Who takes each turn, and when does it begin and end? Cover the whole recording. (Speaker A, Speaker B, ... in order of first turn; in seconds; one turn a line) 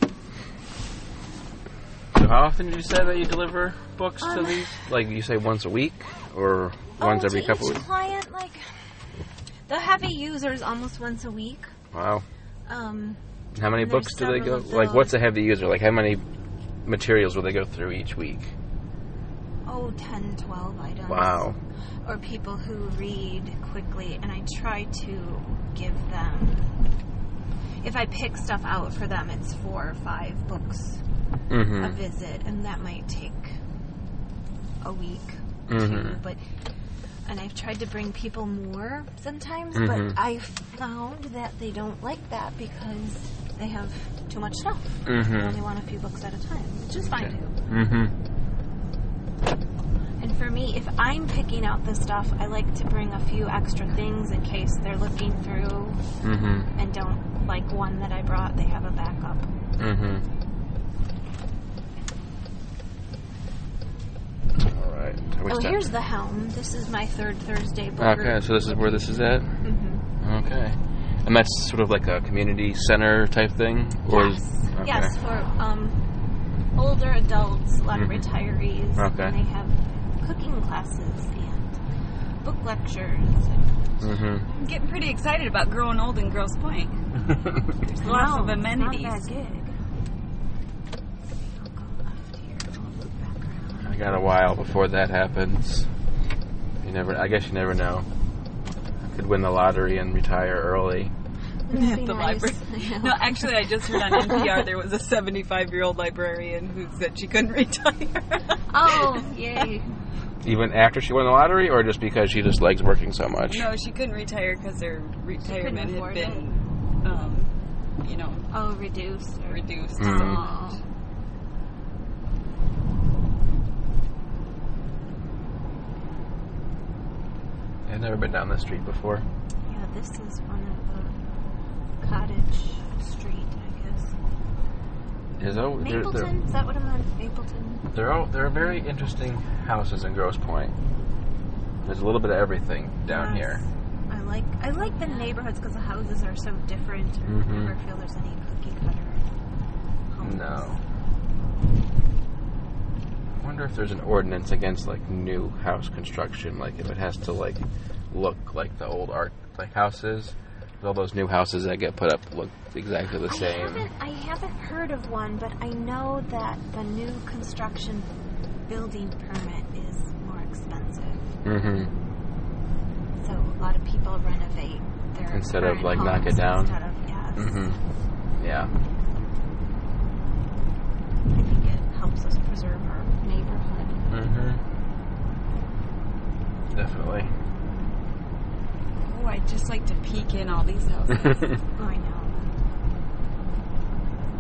Speaker A: 2.1-7.8
Speaker B: 4.2-4.7
Speaker B: 7.0-8.9
Speaker B: 9.7-11.7
Speaker A: 11.9-12.2
Speaker B: 12.7-13.2
Speaker A: 13.6-16.2
Speaker B: 13.7-15.2
Speaker A: 16.9-18.5
Speaker B: 19.6-21.5
Speaker A: 21.1-21.6
Speaker B: 22.1-26.7
Speaker B: 27.8-31.0
Speaker A: 31.5-32.0
Speaker B: 31.7-33.6
Speaker B: 34.8-36.4
Speaker A: 35.7-36.2
Speaker B: 37.3-47.6
Speaker A: 39.8-40.2
Speaker A: 45.0-45.6
Speaker A: 47.0-48.1
Speaker B: 50.2-56.0
Speaker A: 56.2-56.7
Speaker B: 56.8-59.5
Speaker A: 59.8-60.2
Speaker A: 64.6-65.9
Speaker B: 65.5-69.1
Speaker A: 68.0-69.6
Speaker B: 69.6-70.0
Speaker A: 70.2-75.1
Speaker B: 74.1-76.0
Speaker B: 76.8-81.8
Speaker A: 77.9-78.3
Speaker A: 79.0-79.4
Speaker B: 82.4-83.7
Speaker A: 84.0-84.5
Speaker C: 84.5-87.0
Speaker C: 87.9-89.2
Speaker B: 87.9-89.8
Speaker B: 91.3-94.0
Speaker A: 93.8-95.9
Speaker A: 96.8-98.1
Speaker A: 99.0-101.1
Speaker B: 101.7-104.5
Speaker C: 101.7-109.1
Speaker B: 108.7-109.9
Speaker A: 110.4-113.7
Speaker C: 113.5-117.5
Speaker B: 115.4-116.5
Speaker C: 118.0-118.5
Speaker B: 118.5-120.8
Speaker C: 119.5-120.7
Speaker A: 120.0-120.4
Speaker A: 127.9-129.3
Speaker B: 129.7-131.2
Speaker B: 132.0-134.1
Speaker A: 135.4-136.3
Speaker B: 135.7-137.9
Speaker A: 137.9-140.7
Speaker A: 141.8-143.6
Speaker B: 143.1-149.3
Speaker C: 144.9-145.3
Speaker A: 147.3-147.7
Speaker B: 150.1-150.7
Speaker A: 150.2-150.8
Speaker A: 153.4-163.9
Speaker B: 163.2-168.1
Speaker B: 168.7-171.3
Speaker A: 171.4-171.9
Speaker B: 173.2-177.6
Speaker A: 175.3-176.7
Speaker A: 177.4-177.8
Speaker A: 178.4-178.7
Speaker B: 181.3-184.1
Speaker A: 184.1-184.6
Speaker A: 186.7-187.3
Speaker C: 189.0-191.6
Speaker B: 191.8-192.5